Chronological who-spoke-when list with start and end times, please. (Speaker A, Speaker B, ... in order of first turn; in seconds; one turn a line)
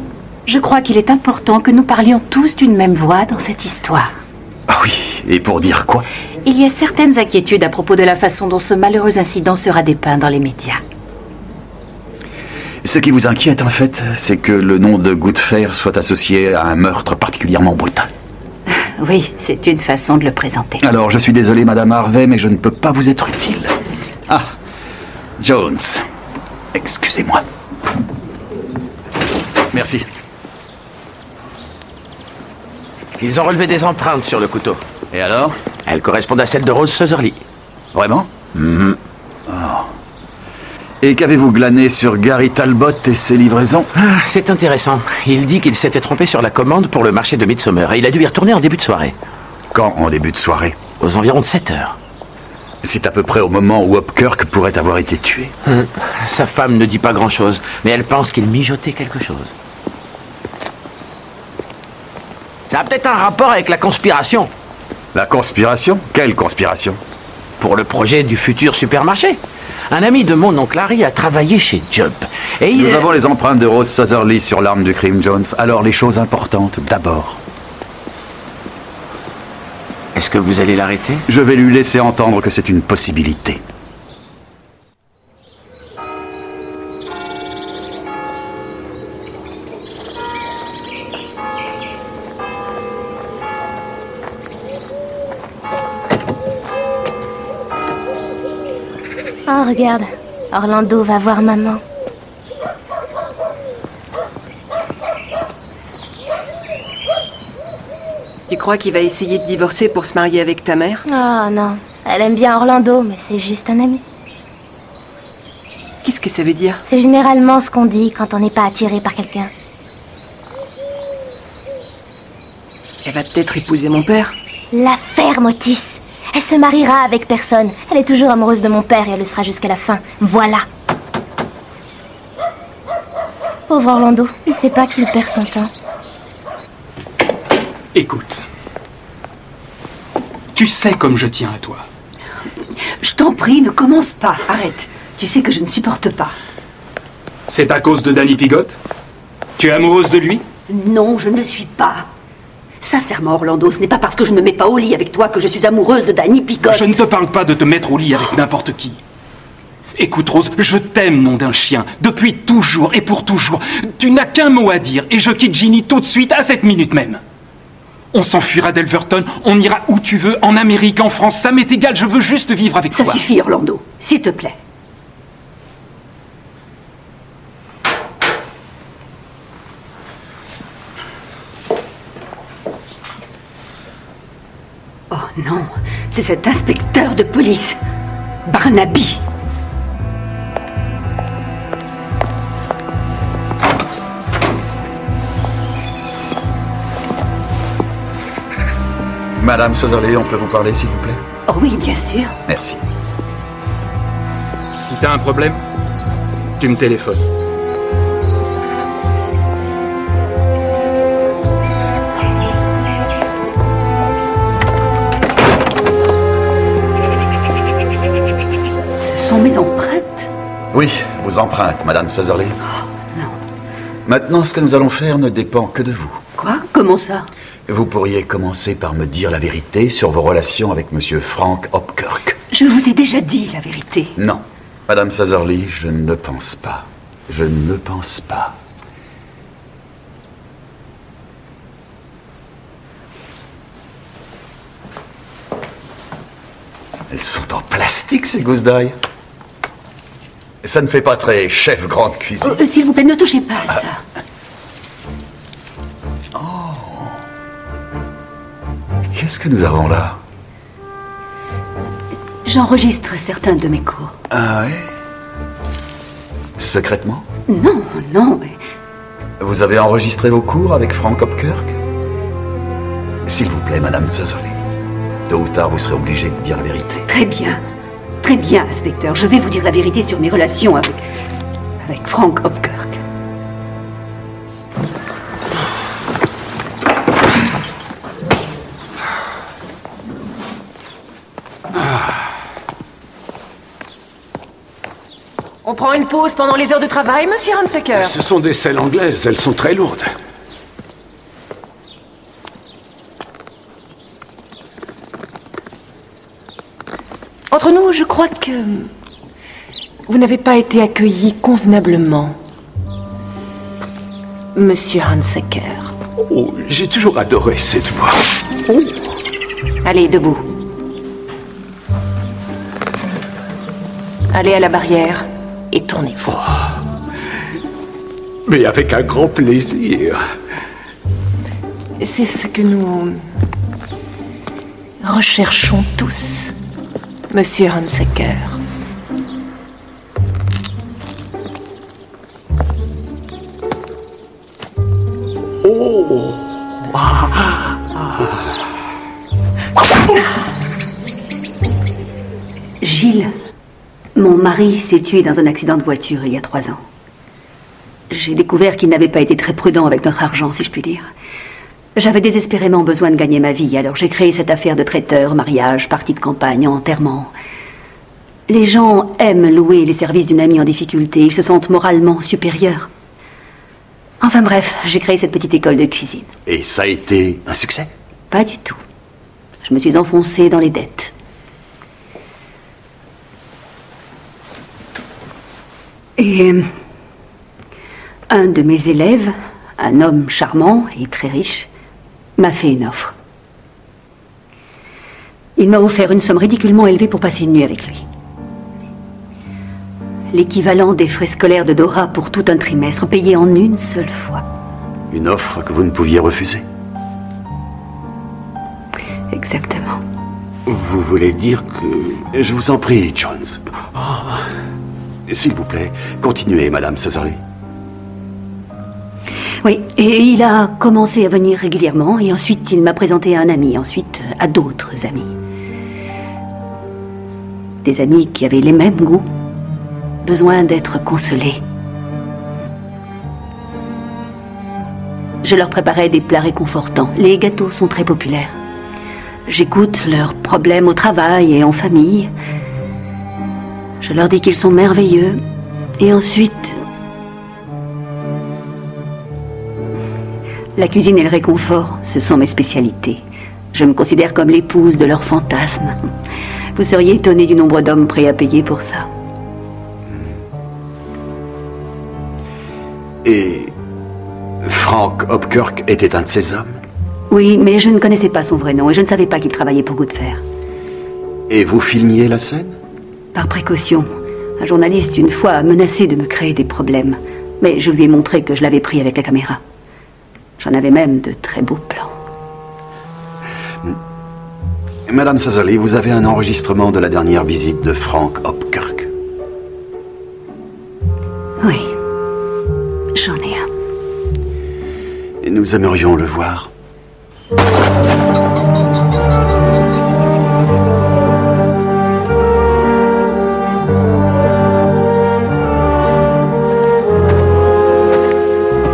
Speaker A: 0.5-4.2
Speaker B: 4.7-6.1
Speaker A: 6.5-10.8
Speaker B: 12.8-18.1
Speaker A: 19.0-20.8
Speaker B: 20.8-23.8
Speaker B: 24.3-24.5
Speaker B: 25.4-26.1
Speaker B: 26.7-27.5
Speaker B: 29.7-30.1
Speaker C: 33.2-34.8
Speaker B: 35.1-35.6
Speaker C: 35.9-37.4
Speaker B: 37.9-38.3
Speaker C: 38.5-39.0
Speaker B: 39.5-39.9
Speaker B: 41.0-43.9
Speaker C: 44.0-49.1
Speaker B: 49.7-50.8
Speaker C: 51.0-52.0
Speaker B: 52.8-55.5
Speaker C: 55.7-59.5
Speaker C: 62.7-64.5
Speaker B: 65.1-67.0
Speaker C: 67.6-73.0
Speaker B: 72.7-77.4
Speaker C: 80.2-81.2
Speaker B: 81.3-83.6
Speaker D: 99.5-101.8
Speaker E: 108.5-111.0
Speaker D: 111.1-114.0
Speaker E: 116.0-116.8
Speaker D: 116.9-119.5
Speaker E: 123.0-124.4
Speaker D: 124.7-130.7
Speaker D: 133.7-135.7
Speaker F: 137.9-138.4
Speaker F: 140.5-141.9
Speaker G: 143.0-146.4
Speaker F: 147.5-148.8
Speaker F: 149.6-150.4
Speaker G: 150.7-152.1
Speaker G: 152.8-157.0
Speaker F: 156.6-159.0
Speaker F: 160.0-167.2
Speaker F: 168.1-173.2
Speaker G: 172.9-174.6
Speaker G: 185.1-187.8
Speaker G: 188.5-189.2
Speaker B: 199.4-201.2
Speaker G: 201.5-202.4
Speaker B: 202.5-202.8
Speaker F: 204.8-205.6
Speaker F: 206.6-207.2
Speaker G: 219.0-220.3
Speaker B: 220.7-222.6
Speaker G: 223.0-223.4
Speaker B: 224.1-226.2
Speaker G: 226.4-227.3
Speaker B: 227.7-232.4
Speaker G: 232.5-234.2
Speaker B: 234.2-238.6
Speaker B: 247.1-249.0
Speaker B: 250.6-252.6
Speaker G: 252.4-254.0
Speaker B: 256.4-257.2
Speaker B: 259.1-260.2
Speaker G: 262.4-264.2
Speaker B: 264.3-264.9
Speaker B: 266.6-267.3
Speaker G: 267.5-268.6
Speaker B: 269.4-271.8
Speaker B: 273.2-274.6
Speaker B: 275.3-277.1
Speaker G: 277.1-277.6
Speaker G: 278.2-281.1
Speaker G: 281.8-283.0
Speaker H: 295.6-298.1
Speaker I: 297.9-300.1
Speaker H: 307.5-308.9
Speaker H: 310.1-312.4
Speaker H: 314.6-315.9
Speaker I: 316.3-318.1
Speaker H: 319.8-320.4
Speaker H: 324.3-326.4
Speaker I: 328.5-330.2
Speaker H: 332.0-333.2
Speaker H: 335.0-336.5
Speaker H: 337.3-338.6
Speaker G: 352.8-353.3
Speaker G: 354.1-356.8
Speaker G: 358.1-361.1
Speaker G: 361.9-367.3
Speaker G: 368.5-372.9
Speaker G: 374.2-376.3
Speaker B: 376.5-377.9
Speaker G: 378.3-378.8
Speaker G: 379.6-381.1
Speaker G: 386.2-386.7
Speaker G: 388.3-391.7
Speaker G: 392.4-393.1
Speaker G: 395.6-398.1
Speaker G: 400.3-404.5
Speaker B: 405.1-406.6
Speaker G: 409.3-410.0
Speaker C: 410.7-412.3
Speaker B: 412.3-413.6
Speaker C: 414.0-414.4
Speaker B: 415.3-417.4
Speaker G: 419.6-425.3
Speaker G: 427.8-429.3
Speaker G: 430.2-431.6
Speaker G: 435.4-438.6
Speaker G: 439.5-442.3
Speaker G: 444.0-445.4
Speaker G: 446.0-446.8
Speaker G: 450.8-456.1
Speaker G: 456.8-459.1
Speaker B: 463.2-463.7
Speaker B: 464.6-466.8
Speaker G: 467.3-470.4
Speaker B: 471.5-472.8
Speaker G: 473.3-479.6
Speaker G: 480.6-482.2
Speaker B: 485.1-489.1
Speaker G: 491.6-492.0
Speaker G: 493.1-493.7
Speaker B: 495.4-496.7